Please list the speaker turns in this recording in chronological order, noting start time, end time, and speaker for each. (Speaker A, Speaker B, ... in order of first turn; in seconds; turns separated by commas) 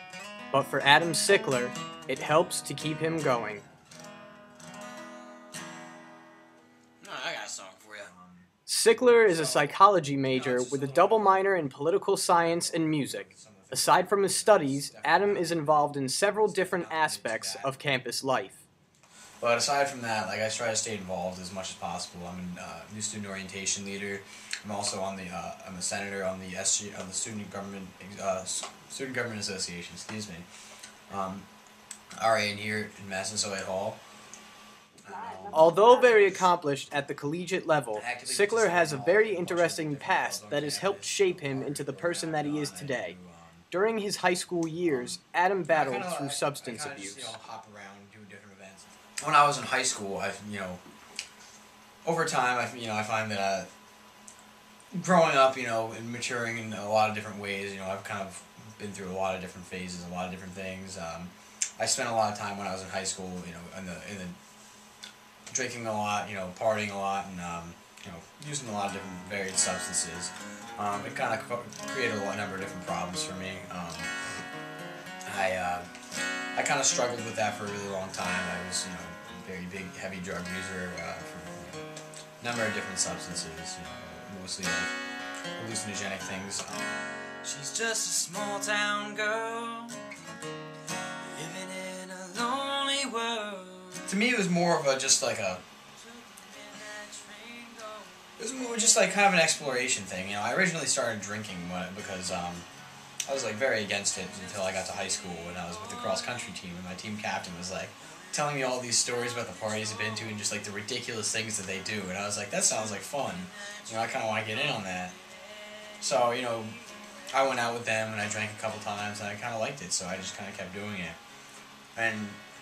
Speaker A: 0.5-3.6, Speaker B: 7.0-8.5, Speaker A: 8.7-18.6, Speaker B: 9.3-11.5, Speaker B: 12.4-15.9, Speaker B: 16.4-17.8, Speaker B: 19.4-30.5, Speaker B: 31.1-31.5, Speaker B: 32.2-34.0, Speaker B: 35.0-35.9, Speaker A: 35.5-43.2, Speaker B: 37.9-43.7, Speaker A: 43.7-47.4, Speaker B: 44.8-50.8, Speaker B: 52.0-53.7, Speaker B: 54.9-64.4, Speaker B: 65.5-74.1, Speaker B: 75.3-75.9, Speaker B: 76.5-81.9, Speaker B: 82.4-85.0, Speaker B: 85.5-86.9, Speaker C: 87.5-89.9, Speaker B: 89.1-89.8, Speaker C: 91.3-94.0, Speaker B: 94.0-95.6, Speaker C: 96.9-97.9, Speaker B: 98.4-102.7, Speaker B: 103.3-115.2, Speaker B: 116.0-116.8, Speaker B: 117.3-121.2, Speaker B: 122.0-122.4